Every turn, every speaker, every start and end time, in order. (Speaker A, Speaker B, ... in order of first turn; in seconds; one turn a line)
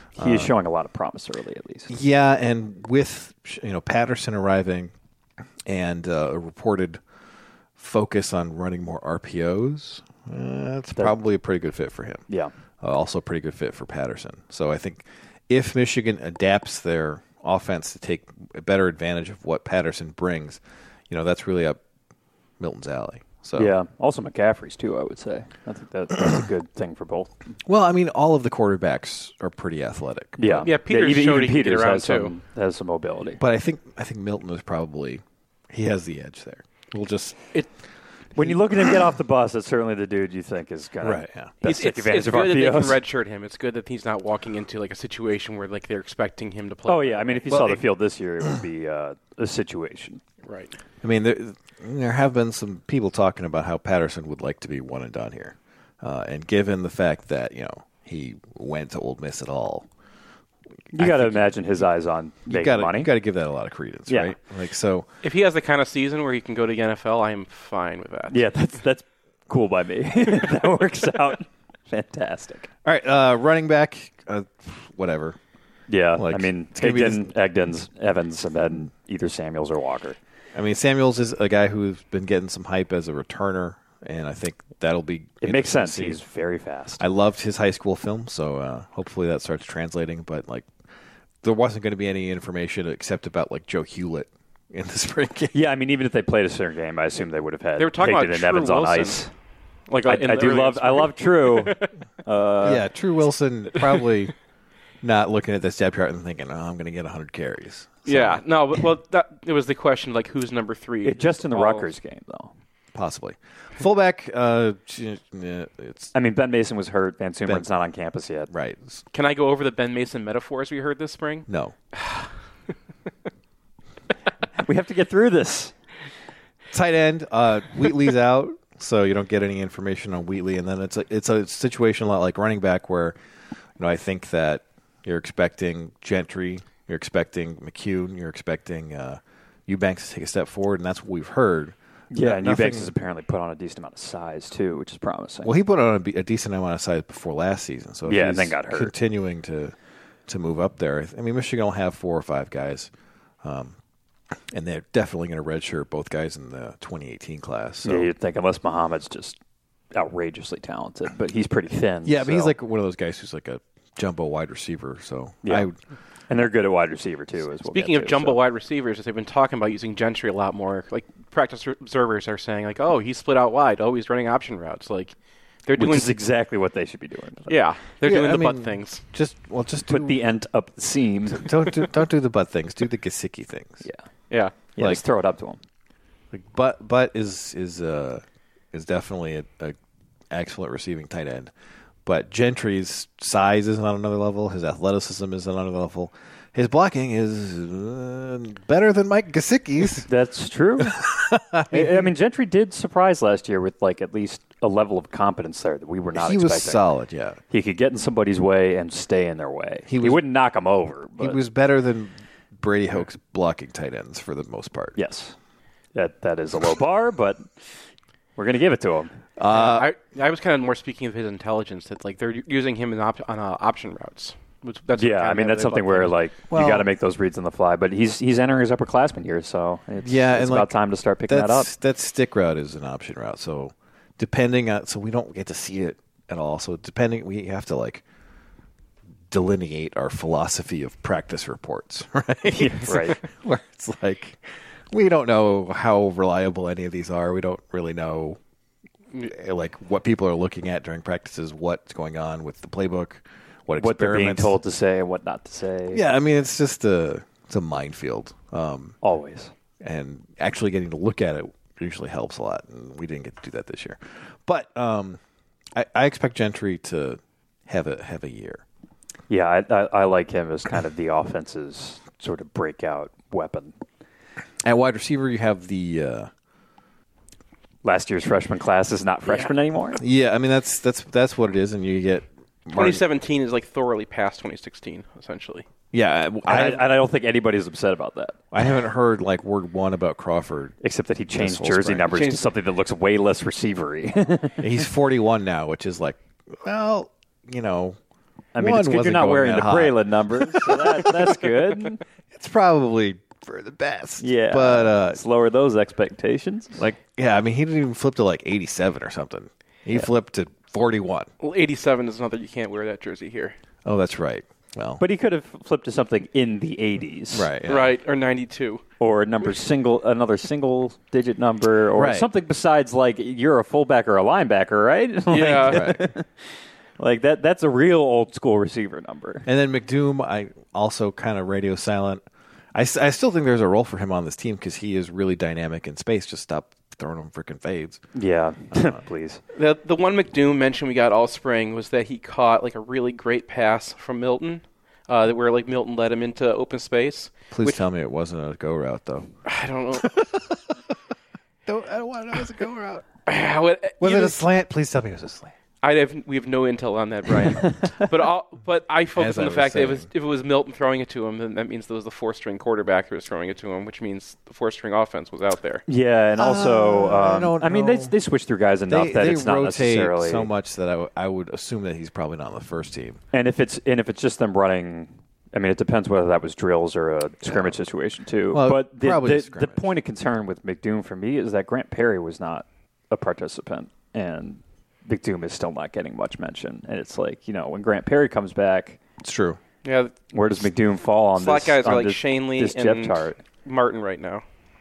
Speaker A: 0.2-0.5
Speaker B: 0.2-1.9
Speaker A: 1.9-4.9
Speaker A: 5.7-7.0
Speaker A: 7.8-12.2
Speaker A: 12.8-21.8
Speaker A: 22.6-23.7
Speaker B: 23.5-27.3
Speaker A: 27.6-30.7
Speaker B: 30.4-33.4
Speaker C: 30.6-32.3
Speaker A: 33.4-37.5
Speaker A: 38.4-38.8
Speaker B: 38.4-43.0
Speaker A: 41.0-41.5
Speaker C: 41.6-47.6
Speaker B: 46.9-50.2
Speaker A: 47.5-47.8
Speaker C: 50.4-50.7
Speaker A: 51.0-59.9
Speaker A: 60.9-61.5
Speaker B: 60.9-63.1
Speaker A: 62.5-65.1
Speaker B: 64.1-64.4
Speaker C: 65.2-68.4
Speaker B: 68.3-72.7
Speaker A: 72.8-75.4
Speaker B: 75.9-80.2
Speaker A: 76.2-77.3
Speaker A: 80.5-86.2
Speaker B: 85.4-87.0
Speaker A: 87.0-90.7
Speaker A: 91.4-95.5
Speaker B: 95.5-99.3
Speaker C: 97.8-99.2
Speaker C: 99.9-101.9
Speaker B: 100.0-102.8
Speaker A: 102.6-104.3
Speaker A: 105.0-108.4
Speaker C: 108.0-111.9
Speaker B: 111.0-112.5
Speaker A: 112.9-116.1
Speaker B: 116.1-118.5
Speaker A: 118.5-119.0
Speaker C: 119.1-121.5
Speaker A: 121.5-121.7
Speaker B: 124.6-125.7
Speaker A: 126.7-133.2
Speaker A: 133.8-142.9
Speaker B: 142.1-145.5
Speaker A: 145.4-149.7
Speaker B: 148.1-148.9
Speaker A: 150.3-152.9
Speaker A: 153.4-153.8
Speaker A: 154.5-158.1
Speaker B: 157.8-159.4
Speaker B: 159.9-162.5
Speaker A: 162.0-165.8
Speaker B: 166.3-168.4
Speaker C: 167.7-175.1
Speaker C: 175.7-176.2
Speaker B: 175.8-177.6
Speaker C: 177.5-179.0
Speaker A: 178.0-180.2
Speaker B: 179.9-181.6
Speaker A: 181.3-183.8
Speaker B: 184.6-185.6
Speaker A: 186.3-189.8
Speaker A: 190.3-191.5
Speaker A: 192.0-200.1
Speaker B: 200.1-201.0
Speaker A: 201.0-202.1
Speaker B: 201.7-206.8
Speaker A: 206.1-207.4
Speaker B: 207.5-211.4
Speaker A: 209.9-210.2
Speaker A: 211.2-215.0
Speaker B: 214.9-215.3
Speaker B: 215.9-217.5
Speaker B: 218.4-219.1
Speaker A: 219.4-219.9
Speaker C: 219.5-226.2
Speaker B: 224.9-231.7
Speaker A: 226.5-226.9
Speaker A: 230.0-238.0
Speaker A: 239.3-248.4
Speaker B: 242.5-243.2
Speaker A: 249.2-254.6
Speaker B: 253.8-256.0
Speaker A: 255.9-258.9
Speaker B: 259.0-259.5
Speaker A: 259.8-265.2
Speaker A: 265.7-268.6
Speaker B: 269.3-273.7
Speaker A: 274.6-276.3
Speaker B: 277.8-280.0
Speaker A: 280.0-283.0
Speaker C: 282.7-285.6
Speaker A: 285.9-286.9
Speaker B: 286.4-288.4
Speaker A: 288.5-290.8
Speaker B: 290.8-294.6
Speaker A: 291.3-292.2
Speaker C: 292.1-292.4
Speaker A: 294.6-298.0
Speaker B: 298.5-302.0
Speaker A: 298.6-301.6
Speaker A: 302.3-305.2
Speaker B: 304.2-306.8
Speaker A: 306.8-311.3
Speaker C: 311.4-313.6
Speaker A: 313.8-315.0
Speaker B: 315.0-317.5
Speaker A: 317.3-317.9
Speaker C: 317.7-318.8
Speaker B: 319.0-326.3
Speaker A: 321.9-322.3
Speaker C: 325.3-325.9
Speaker A: 325.7-326.1
Speaker B: 327.0-329.4
Speaker A: 329.4-332.2
Speaker A: 332.7-338.0
Speaker B: 338.1-339.4
Speaker A: 338.7-339.0
Speaker C: 339.5-347.8
Speaker A: 347.5-349.3
Speaker C: 349.4-350.3
Speaker A: 351.6-353.1
Speaker C: 353.3-354.4
Speaker A: 354.0-355.5
Speaker C: 355.8-365.8
Speaker A: 359.1-360.1
Speaker B: 365.9-370.5
Speaker A: 366.4-368.1
Speaker A: 368.9-373.2
Speaker B: 373.3-389.0
Speaker A: 377.4-377.7
Speaker A: 378.5-379.9
Speaker A: 389.2-389.6
Speaker C: 389.8-390.1
Speaker B: 390.3-393.4
Speaker C: 391.3-394.4